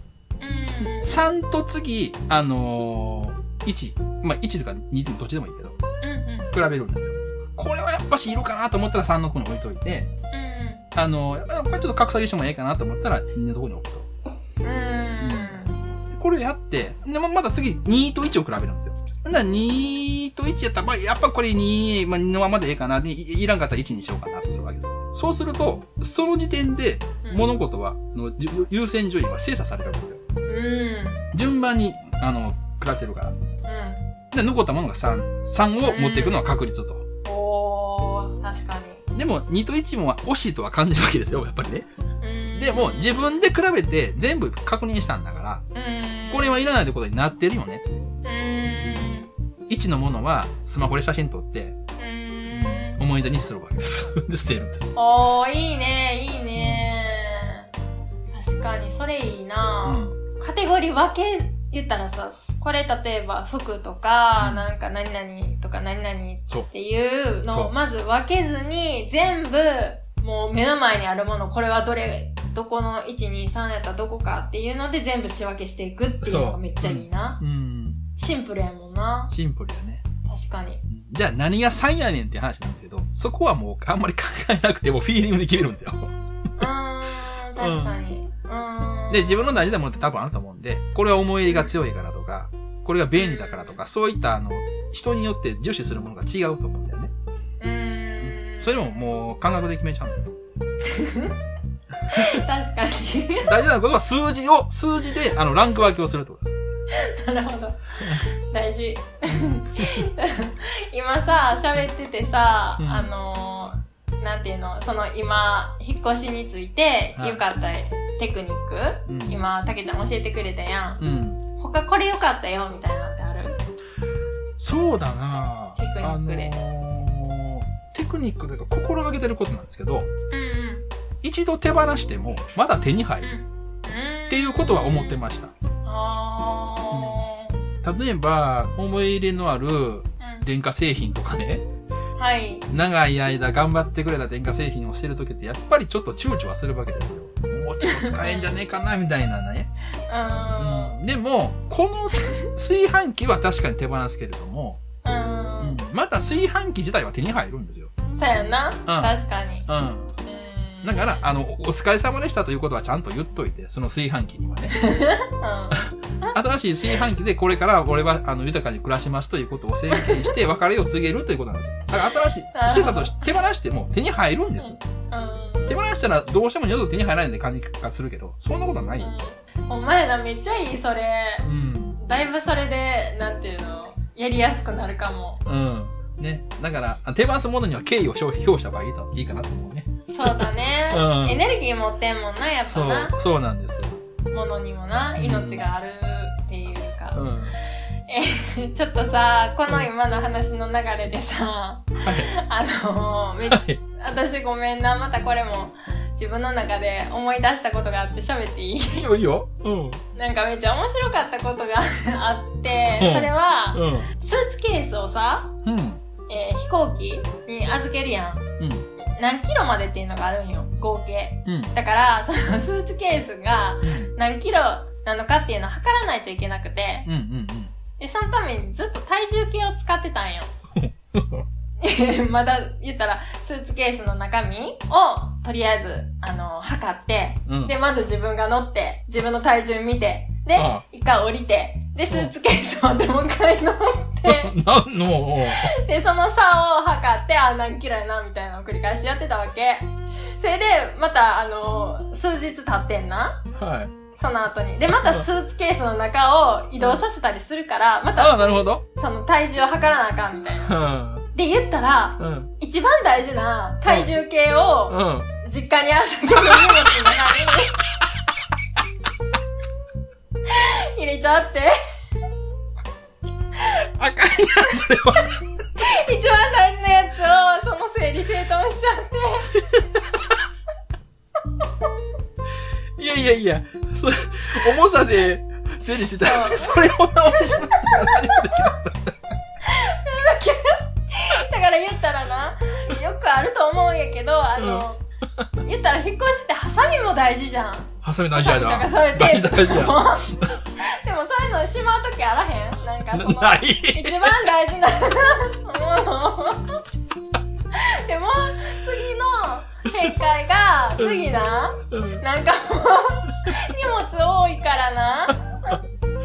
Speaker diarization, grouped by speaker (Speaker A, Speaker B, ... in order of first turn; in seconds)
Speaker A: 0.4-1.2, 6.0-6.5, 10.3-10.8, 14.6-15.8, 30.5-31.3, 33.6-34.1, 35.9-36.5, 37.2-39.0, 42.2-43.2, 45.7-46.7, 48.2-49.3, 52.0-53.0, 54.9-57.7, 58.3-77.4, 78.2-79.3, 80.2-80.8, 86.6-89.5, 93.1-93.8, 97.6-98.8, 100.9-101.4, 102.1-103.5, 106.9-121.0, 121.6-123.6, 125.8-126.5, 130.3-130.9, 133.2-135.2, 135.8-137.6, 140.2-140.5, 142.2-142.7, 147.8-148.5, 150.1-151.0, 155.0-155.8, 158.2-159.7, 160.2-161.2, 164.7-166.3, 169.9-170.3, 172.5-173.2, 174.6-175.8, 179.0-181.4, 182.0-185.4, 190.1-193.1, 194.3-197.2, 198.1-209.0, 210.1-215.6, 216.3-218.4, 219.2-227.1, 228.0-230.5, 231.8-244.5, 245.5-253.4, 254.2-260.8, 261.3-267.8, 270.5-271.8, 275.7-279.5, 286.2-288.4, 289.6-295.0, 295.6-306.8, 307.7-315.8
Speaker B: 0.8-5.8, 6.5-10.1, 10.9-14.1, 15.2-15.6, 16.1-30.2, 31.3-33.4, 34.3-37.0, 39.1-41.9, 42.6-45.6, 46.3-47.8, 48.8-49.0, 49.7-51.7, 52.5-54.9, 56.6-56.9, 59.8-60.2, 64.4-64.7, 67.5-67.7, 76.2-78.0, 79.3-80.0, 80.9-86.1, 87.6-88.0, 89.1-97.1, 98.2-100.3, 102.1-102.4, 103.4-106.6, 112.8-113.1, 117.2-117.4, 119.1-119.4, 121.0-121.4, 124.6-130.1, 131.2-133.3, 134.3-135.5, 136.9-137.2, 137.8-141.6, 142.7-149.7, 150.6-154.8, 155.6-157.9, 158.9-159.1, 159.7-160.1, 160.8-164.8, 165.7-174.8, 175.7-179.1, 181.4-182.0, 185.4-191.4, 192.7-194.0, 195.2-195.7, 197.1-197.6, 202.0-202.3, 203.4-203.8, 208.9-210.0, 212.9-214.1, 215.6-216.0, 218.6-218.9, 221.4-221.7, 223.8-224.1, 227.0-227.7, 230.8-231.4, 237.5-237.7, 240.5-240.8, 244.2-245.7, 253.5-253.9, 258.1-258.8, 260.6-261.2, 262.2-262.5, 263.9-264.1, 264.9-265.3, 266.4-267.4, 274.0-275.4, 279.7-280.0, 283.0-289.1, 294.6-294.8, 298.0-300.0, 303.1-304.4, 311.0-311.3, 311.9-312.2